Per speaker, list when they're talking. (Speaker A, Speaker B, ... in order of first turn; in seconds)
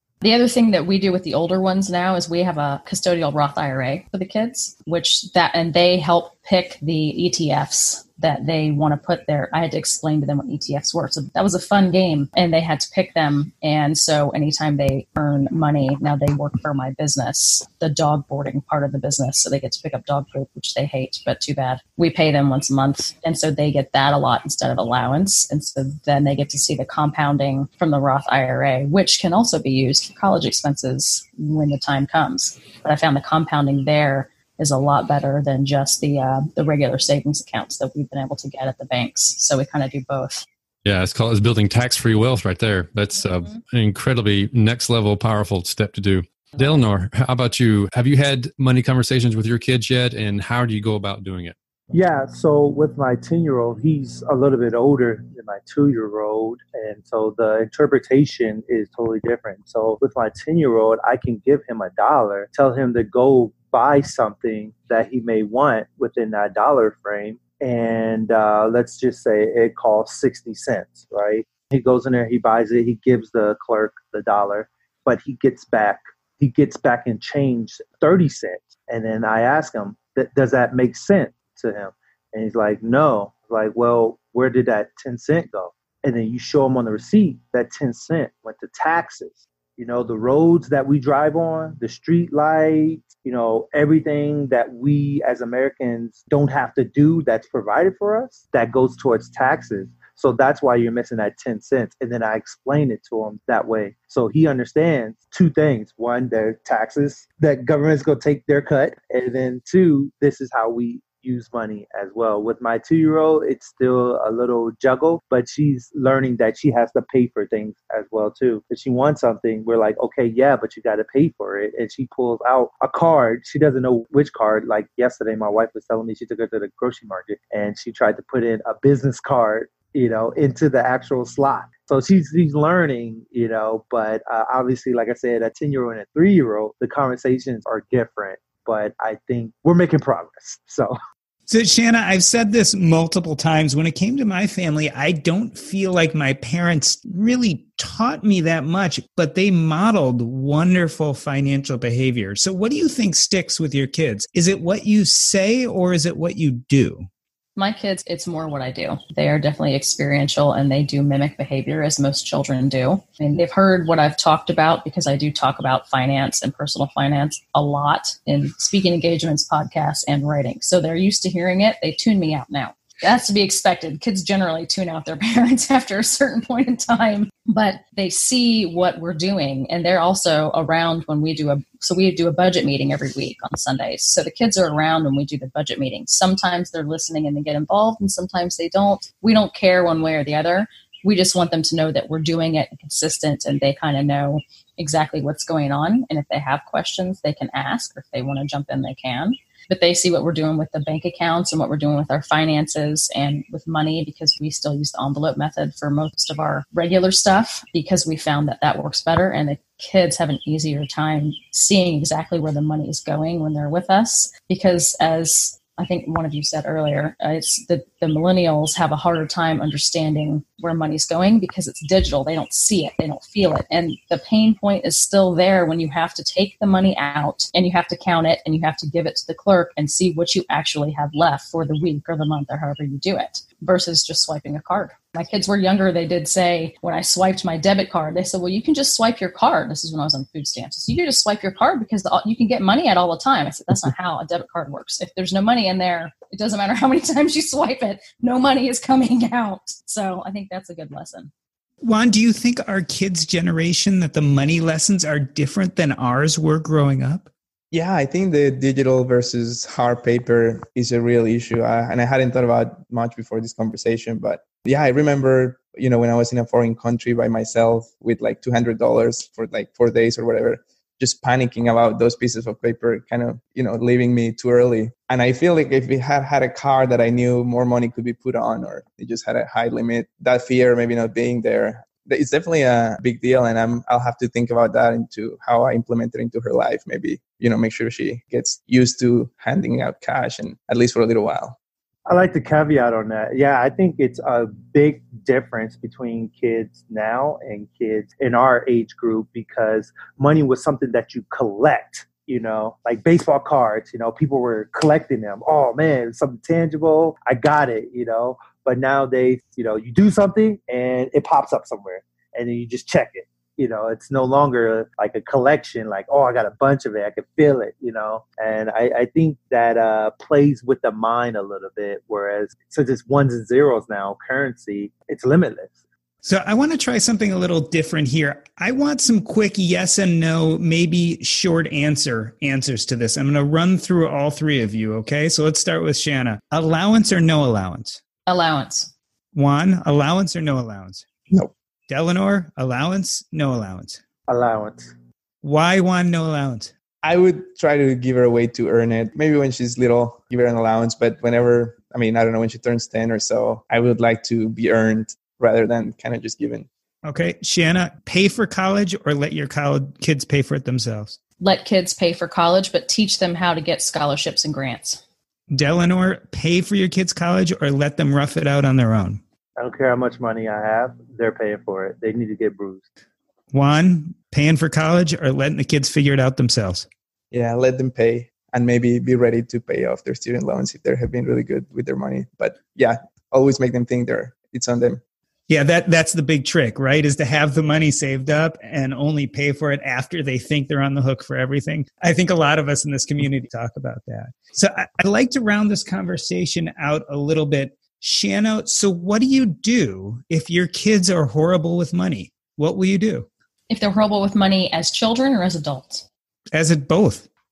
Speaker A: 0.2-40.4, 157.6-251.3, 338.3-338.9, 361.4-365.0, 403.7-406.1
Speaker B: 40.8-51.5
Speaker C: 51.9-140.9, 292.1-325.8, 344.3-344.9, 369.6-372.9
Speaker D: 141.5-157.1, 251.8-257.3, 326.2-338.0, 339.4-341.1, 341.9-344.0, 345.4-346.7, 357.0-361.2, 365.5-369.2, 373.5-376.9, 385.5-403.3, 406.5-407.3
Speaker E: 257.7-291.6, 347.0-356.7, 377.3-385.0